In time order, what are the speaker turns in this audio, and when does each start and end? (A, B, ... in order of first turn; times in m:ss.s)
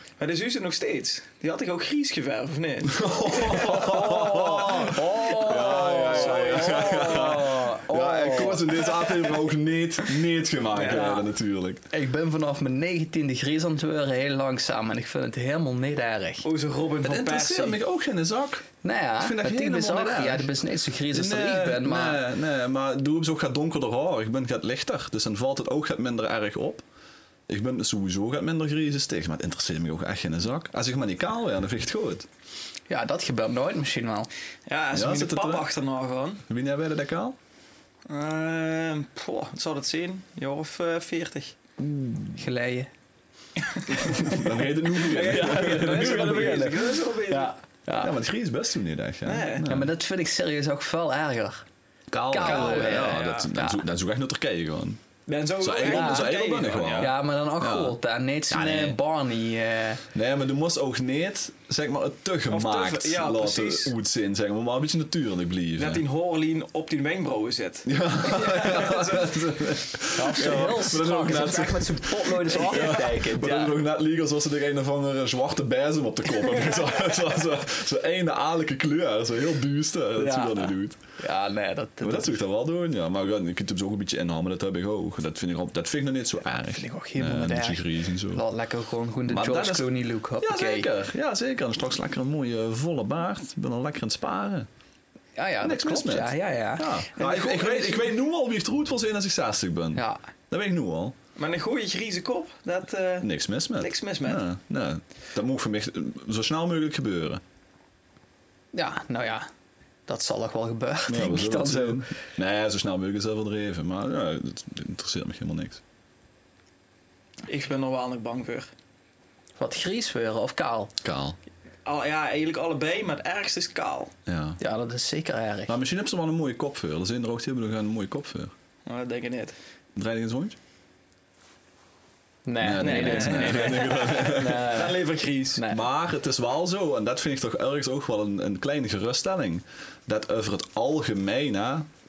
0:00.2-0:04.4 A
0:02.9-0:11.8 B
0:03.6-0:09.3 C
0:05.4-0:07.1 A
0:10.7-0:11.2 A
0:10.9-0:11.3 C
0:11.9-0:16.5 C
0:16.4-0:17.8 A
0:17.0-0:18.7 B
0:18.8-0:22.2 C
0:19.2-0:20.5 B
0:21.1-0:26.8 B
0:27.5-0:32.3 B
0:32.9-0:34.3 C
0:34.7-0:36.4 A
0:34.9-0:35.7 B
0:36.5-0:37.4 B
0:38.1-0:41.6 A
0:41.8-0:42.4 B
0:42.4-0:42.9 C
0:43.7-0:47.5 A
0:43.9-0:46.7 B
0:44.1-0:44.4 C
0:45.1-0:48.2 C
0:48.0-0:49.9 B
0:49.3-0:49.7 A
0:49.6-0:51.7 C
0:52.1-0:55.0 B
0:52.2-0:53.8 C
0:52.4-0:53.5 A
0:55.3-0:57.1 A
0:55.6-0:58.0 B
0:55.8-0:56.3 C
0:57.0-1:00.0 C
0:58.5-0:59.0 B
1:00.1-1:06.0 B
1:02.5-1:03.9 A
1:05.8-1:09.4 A
1:07.9-1:21.0 B
1:10.1-1:13.8 C
1:20.2-1:22.4 C
1:22.0-1:28.4 B
1:26.7-1:30.9 C
1:29.3-1:29.9 B
1:30.4-1:34.7 B
1:35.4-1:37.5 C
1:35.6-1:41.2 B
1:37.2-1:38.1 A
1:40.0-1:40.2 C
1:41.4-1:44.4 A
1:43.2-1:47.4 B
1:48.7-1:49.5 C
1:50.1-1:52.1 C
1:51.1-1:55.8 B
1:57.5-1:58.7 A
1:59.6-2:00.9 C
2:01.0-2:01.4 B
2:01.8-2:04.1 A
2:04.3-2:04.6 B
2:04.6-2:05.8 C
2:05.7-2:08.5 B
2:08.9-2:09.6 A
2:10.0-2:10.6 B
2:12.5-2:15.0 C
2:12.6-2:14.7 B
2:12.8-2:15.6 A
2:15.6-2:15.8 C
2:15.7-2:21.9 B